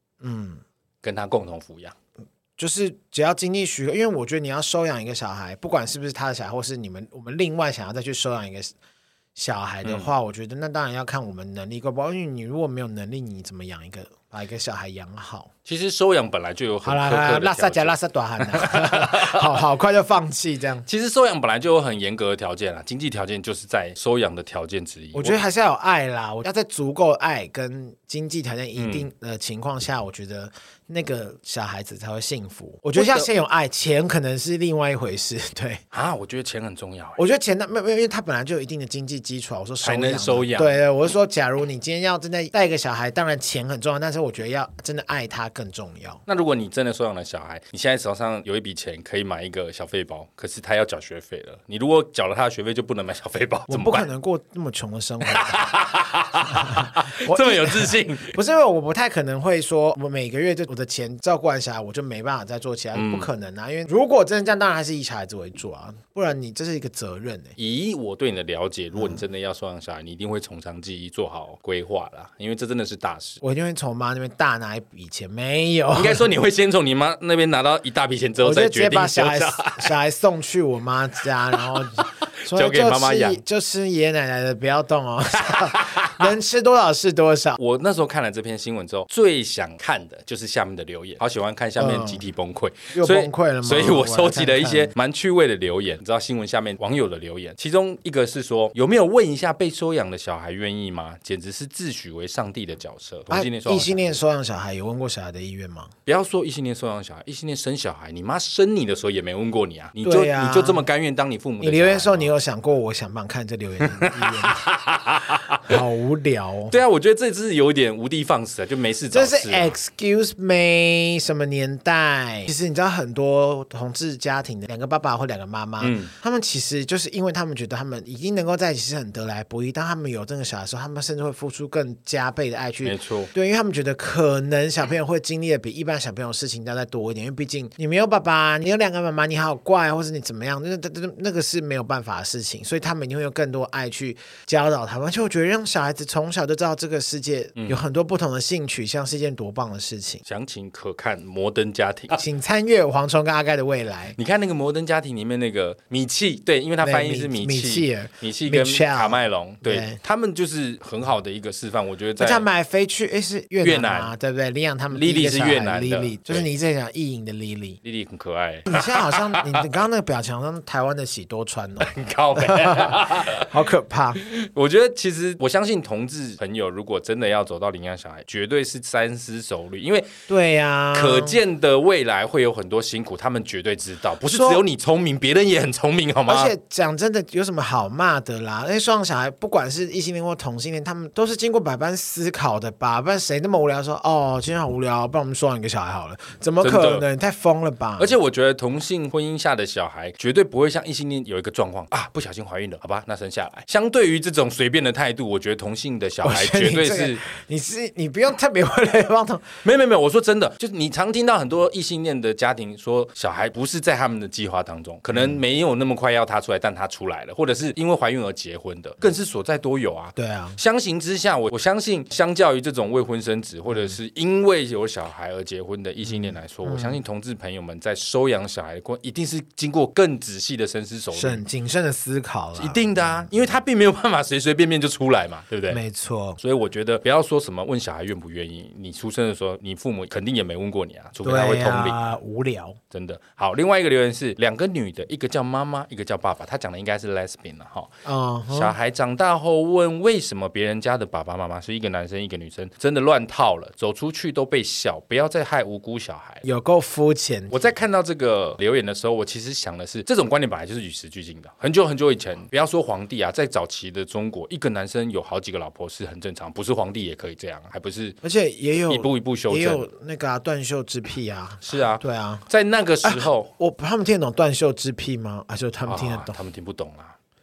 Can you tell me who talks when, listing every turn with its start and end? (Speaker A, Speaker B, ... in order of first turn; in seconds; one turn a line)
Speaker A: 0.2-0.6
Speaker B: 1.0-1.9
Speaker A: 2.6-8.7
Speaker A: 9.3-15.5
Speaker B: 9.8-10.1
Speaker B: 15.6-19.5
Speaker A: 16.8-20.9
Speaker B: 20.9-25.4
Speaker A: 25.1-35.8
Speaker B: 28.8-29.1
Speaker B: 32.9-33.3
Speaker B: 35.9-37.2
Speaker A: 37.2-46.2
Speaker B: 39.8-40.8
Speaker B: 46.3-54.1
Speaker A: 53.7-55.6
Speaker B: 55.2-58.4
Speaker A: 56.4-67.5
Speaker B: 62.9-63.3
Speaker B: 67.6-73.4
Speaker A: 69.0-69.2
Speaker A: 73.4-76.3
Speaker B: 75.9-79.9
Speaker A: 78.4-87.6
Speaker B: 81.5-83.4
Speaker B: 85.5-86.3
Speaker B: 87.6-104.2
Speaker A: 91.8-92.2
Speaker A: 92.9-94.9
Speaker A: 103.3-105.9
Speaker B: 106.0-112.3
Speaker A: 110.0-110.8
Speaker A: 111.6-114.7
Speaker B: 113.9-115.8
Speaker A: 115.6-116.8
Speaker B: 116.7-119.7
Speaker A: 119.1-150.2
Speaker B: 125.8-126.1
Speaker B: 132.8-133.3
Speaker B: 147.6-147.8
Speaker B: 150.2-152.2
Speaker A: 152.1-154.2
Speaker B: 154.2-162.4
Speaker A: 156.8-160.0
Speaker A: 162.2-167.8
Speaker B: 163.6-164.1
Speaker B: 164.9-166.5
Speaker B: 167.8-169.6
Speaker A: 168.7-174.2
Speaker B: 171.8-173.5
Speaker B: 174.2-180.1
Speaker A: 180.3-181.4
Speaker B: 180.9-186.5
Speaker A: 184.2-184.6
Speaker A: 186.3-198.1
Speaker B: 196.6-197.0
Speaker B: 198.0-207.2
Speaker A: 206.2-209.5
Speaker B: 209.6-231.4
Speaker A: 220.2-220.6
Speaker A: 226.1-227.0
Speaker A: 231.1-233.3
Speaker B: 232.6-235.8
Speaker A: 235.7-236.4
Speaker B: 236.4-242.0
Speaker A: 241.2-242.8
Speaker B: 242.9-247.9
Speaker A: 248.0-248.7
Speaker B: 248.5-256.4
Speaker A: 256.4-257.7
Speaker B: 257.5-268.2
Speaker A: 268.2-272.4
Speaker B: 268.9-269.9
Speaker B: 271.6-273.5
Speaker A: 273.0-276.4
Speaker B: 275.9-277.1